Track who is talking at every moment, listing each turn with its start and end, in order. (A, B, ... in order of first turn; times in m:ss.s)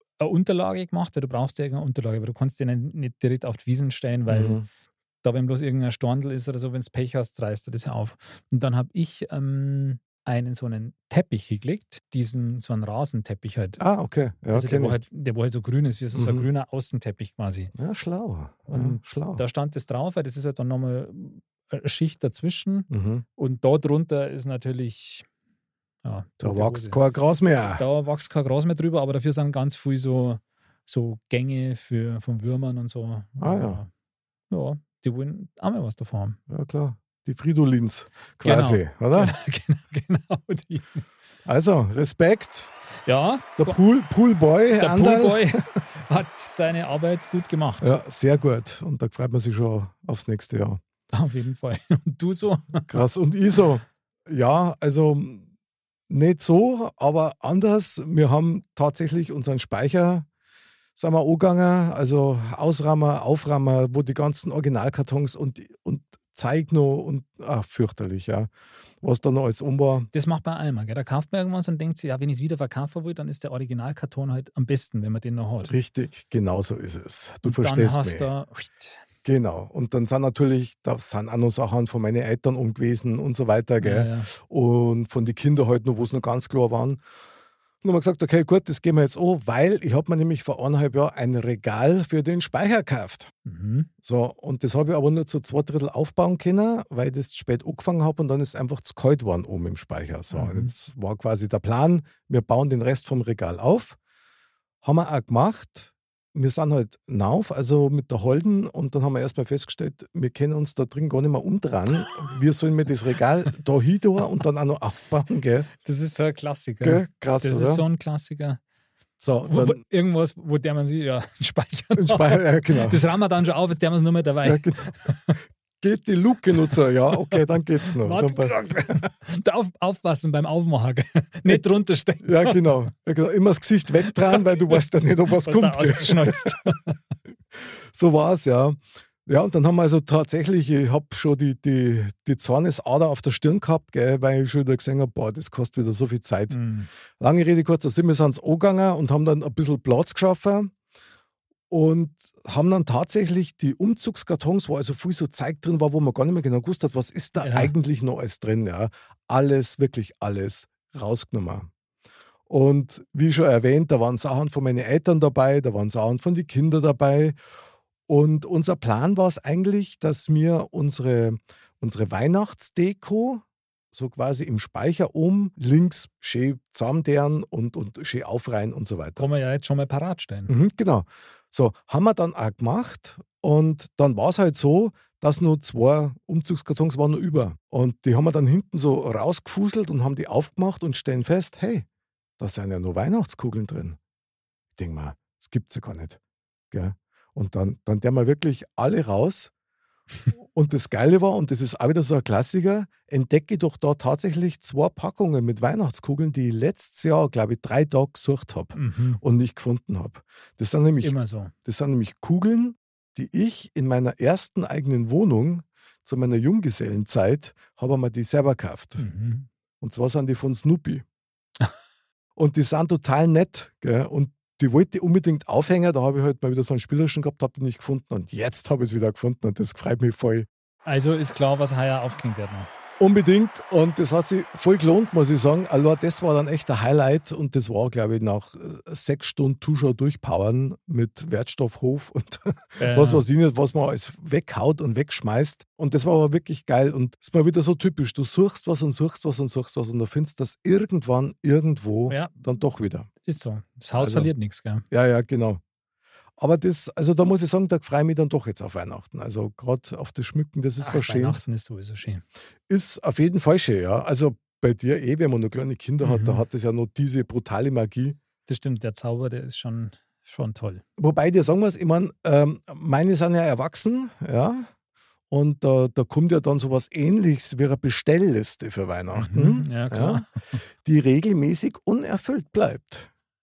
0:00.2-0:04.6 A
0:04.3-0:04.7 B
0:05.2-0:13.8 A
0:13.8-0:15.0 B
0:14.5-0:17.7 A
0:16.1-0:16.4 B
0:17.8-0:19.4 B
0:18.7-0:25.3 A
0:22.9-0:23.2 B
0:26.0-0:27.0 A
0:26.4-0:27.8 B
0:27.8-0:33.9 A
0:33.4-0:33.8 B
0:34.5-0:36.4 A
0:36.5-0:39.4 B
0:38.4-0:41.0 A
0:41.5-0:42.7 B
0:43.1-0:43.8 A
0:43.6-0:45.6 B
0:44.8-0:48.0 A
0:47.8-0:50.8 B
0:51.1-0:52.9 A
0:52.9-0:55.5 B
0:56.1-1:00.3 B
1:01.0-1:10.1 B
1:10.1-1:15.7 A
1:15.6-1:18.3 B
1:17.4-1:19.0 A
1:19.2-1:27.0 B
1:23.8-1:24.3 A
1:27.8-1:33.3 B
1:33.5-1:33.9 A
1:34.0-1:44.0 B
1:40.3-1:40.7 A
1:44.8-1:55.7 B
1:55.8-1:58.6 A
1:56.8-1:57.8 B
1:59.2-1:59.8 B
1:59.5-2:05.4 A
2:02.0-2:03.0 B
2:04.4-2:04.9 B
2:05.8-2:08.5 B
2:08.0-2:12.8 A
2:12.2-2:16.6 B
2:14.1-2:14.5 A
2:15.4-2:17.0 A
2:17.9-2:26.6 B
2:26.5-2:26.9 A
2:27.2-2:30.7 B
2:31.7-2:41.7 B
2:37.4-2:37.7 A
2:42.5-2:47.4 B
2:48.1-2:59.2 B
2:59.2-3:00.5 A
3:00.5-3:11.9 B
3:12.4-3:14.0 B
3:14.8-3:16.2 B
3:16.7-3:19.5 B
3:20.6-3:39.0 B
3:28.8-3:29.2 A
3:31.0-3:31.5 A
3:39.0-3:39.5 A
3:39.8-3:41.0 B
3:42.4-3:50.5 B
3:50.9-3:52.7 A
3:53.0-4:13.1 B
4:02.8-4:03.2 A
4:12.1-4:12.3 A
4:13.2-4:14.8 A
4:14.0-4:14.3 B
4:14.9-4:15.6 B
4:16.4-4:21.4 B
4:20.8-4:22.2 A
4:22.7-4:28.2 B
4:26.0-4:26.4 A
4:28.5-4:30.8 A
4:31.0-4:34.7 B
4:35.3-4:40.2 B
4:39.1-4:40.3 A
4:40.8-4:43.1 B